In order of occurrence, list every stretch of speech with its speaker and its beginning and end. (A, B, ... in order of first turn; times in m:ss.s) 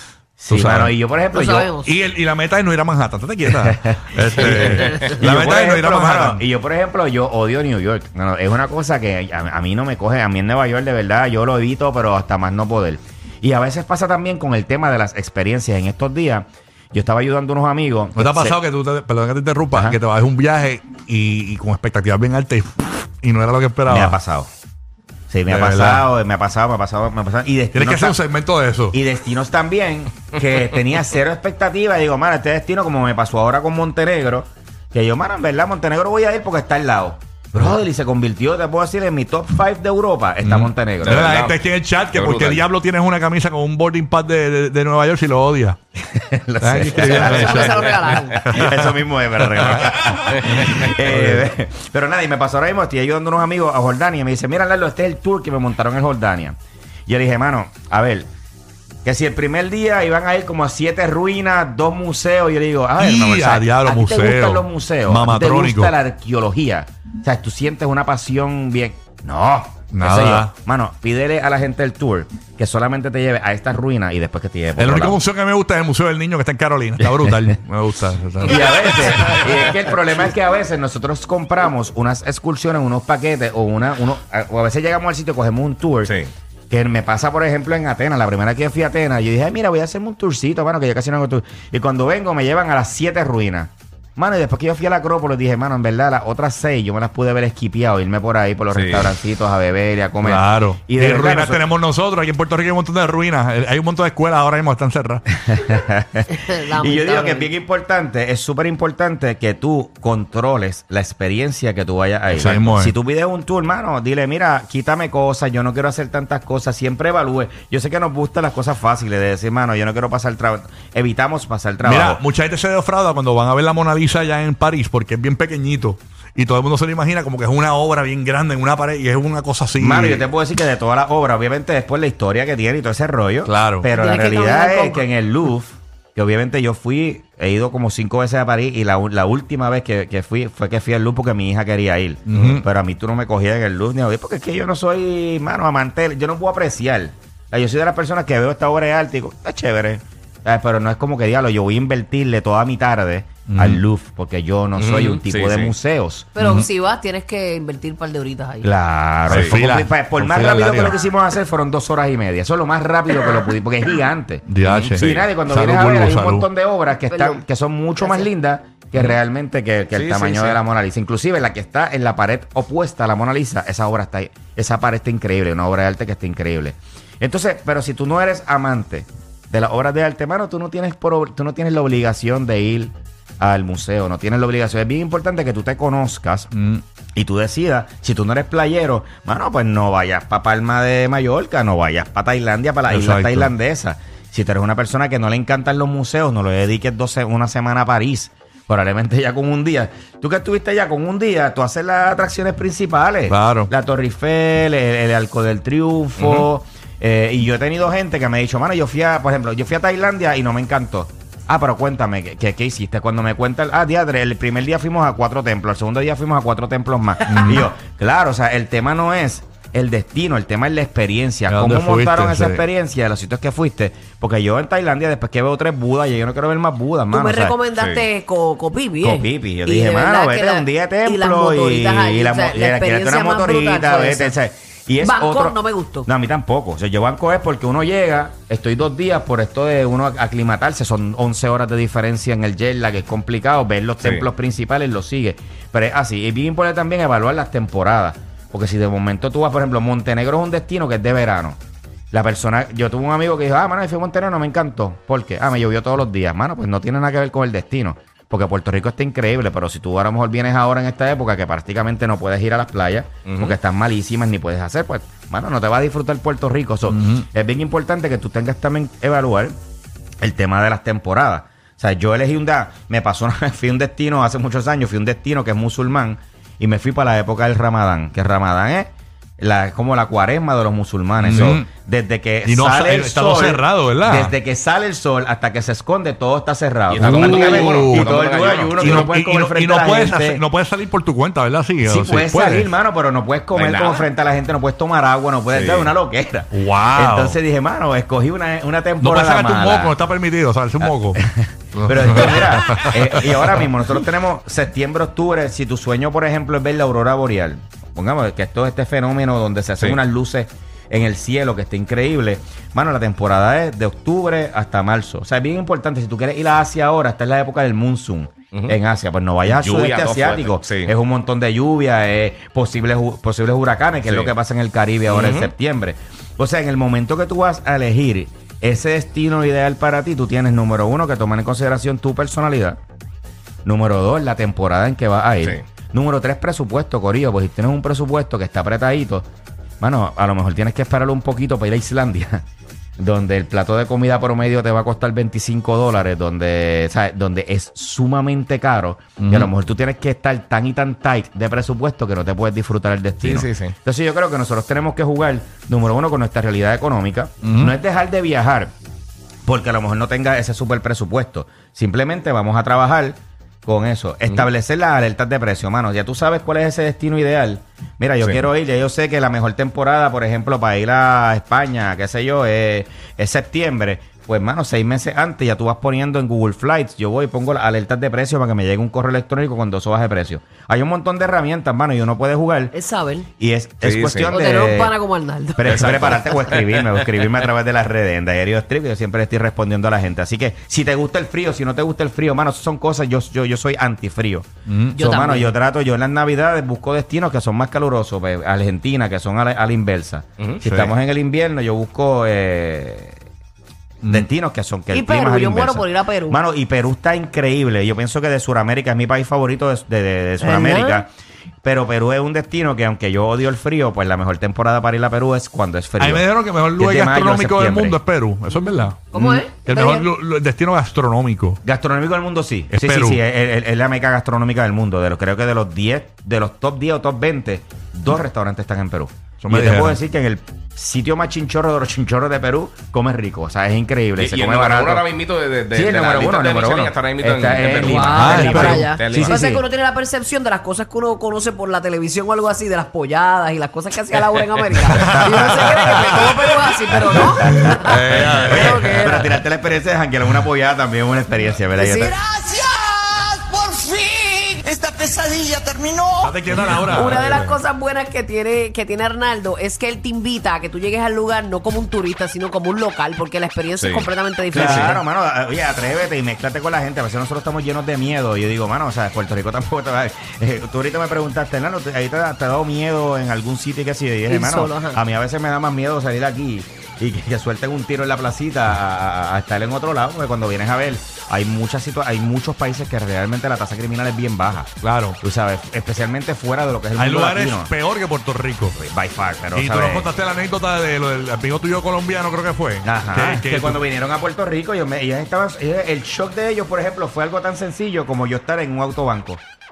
0:00.4-0:01.7 A
0:00.5-0:00.9 B
0:01.3-0:01.9 C
0:01.8-0:06.4 B
0:03.6-0:18.6 A
0:04.5-0:05.1 D
0:18.2-0:24.2 B
0:19.7-0:20.0 A
0:23.9-0:24.5 A
0:25.3-0:28.2 A
0:25.5-0:26.1 B
0:27.7-0:29.0 B
0:28.9-0:41.4 A
0:40.4-0:45.8 B
0:41.0-0:41.6 D
0:42.1-0:42.7 D
0:46.0-0:56.6 A
0:46.6-0:48.9 B
0:46.9-0:48.4 C
0:49.5-0:51.5 B
0:50.3-0:50.9 D
0:57.1-0:58.3 A
0:59.0-1:15.2 A
1:03.0-1:05.9 B
1:09.9-1:10.5 B
1:14.8-1:19.4 B
1:18.4-1:26.2 A
1:26.1-1:26.3 D
1:26.7-1:41.6 A
1:38.7-1:39.1 D
1:40.2-1:45.2 B
1:45.4-2:02.2 A
1:46.3-1:47.5 C
1:52.3-1:52.9 B
2:01.8-2:10.2 B
2:09.8-2:36.3 A
2:13.4-2:13.9 B
2:13.9-2:15.0 C
2:22.3-2:22.6 B
2:22.4-2:22.6 D
2:33.5-2:33.8 B
2:34.8-2:35.7 D
2:36.4-2:38.7 C
2:36.4-2:36.7 B
2:38.6-3:06.5 A
2:39.3-2:41.0 B
2:39.3-2:39.6 D
2:44.4-2:46.4 B
2:44.6-2:45.3 D
2:47.1-2:47.4 C
2:48.0-2:48.3 C
2:49.9-2:50.6 D
3:06.5-3:06.8 B
3:07.2-3:47.6 A
3:12.9-3:13.5 B
3:23.3-3:23.7 B
3:26.2-3:26.4 D
3:37.3-3:37.7 B
3:41.5-3:42.6 B
3:47.1-3:54.3 C
3:47.8-3:48.0 D
3:49.0-4:11.6 A
3:55.0-3:56.1 C
4:12.1-4:29.6 A
4:23.2-4:23.5 D
4:26.9-4:27.2 B
4:30.2-4:50.4 A
4:41.2-4:41.7 B
4:41.3-4:41.6 D
4:42.4-4:44.3 B
4:46.9-4:49.1 D
4:47.0-4:48.1 B
4:48.7-4:52.7 B
4:51.8-4:59.9 A
4:53.5-4:54.0 D
4:55.5-4:55.9 D
4:56.5-4:57.4 B
4:59.0-5:01.2 B
5:01.2-5:32.8 A
5:01.8-5:02.4 D
5:02.1-5:03.5 B
5:19.4-5:20.9 D
5:25.1-5:25.5 D
5:33.6-5:39.3 A
5:39.8-5:42.4 A
5:43.0-5:58.7 A
5:49.2-5:49.5 B
5:53.2-5:53.7 D
5:57.4-5:57.7 B
5:59.4-6:22.8 A
6:22.7-6:23.3 C
6:23.4-6:24.9 A
6:23.8-6:24.4 D
6:24.3-6:26.6 C
6:25.6-6:43.2 A
6:25.6-6:26.2 D
6:34.7-6:34.9 B
6:34.9-6:35.5 C
6:40.4-6:40.9 D
6:44.0-6:51.1 A
6:44.9-6:46.4 C
6:50.4-6:51.0 C
6:51.6-6:58.0 A
6:56.0-7:01.6 B
6:59.1-7:00.1 C
6:59.2-6:59.4 A
7:01.6-7:15.1 A
7:02.7-7:03.2 B
7:09.4-7:10.0 B
7:14.2-7:19.4 D
7:15.7-7:19.6 A
7:17.6-7:29.3 C
7:18.2-7:18.9 B
7:24.9-7:26.2 B
7:25.0-7:26.2 A
7:27.0-7:32.2 A
7:27.5-7:28.9 B
7:31.8-7:32.6 C
7:32.2-7:37.0 E
7:36.2-7:37.2 B
7:36.7-7:45.0 C
7:37.1-7:37.4 D
7:43.8-7:45.0 D
7:44.5-8:04.7 A
7:54.3-7:55.0 C
8:04.8-8:05.2 B
8:05.2-8:07.7 A
8:07.0-8:08.8 B
8:08.8-8:10.1 A
8:09.5-8:13.8 B
8:12.8-8:19.4 A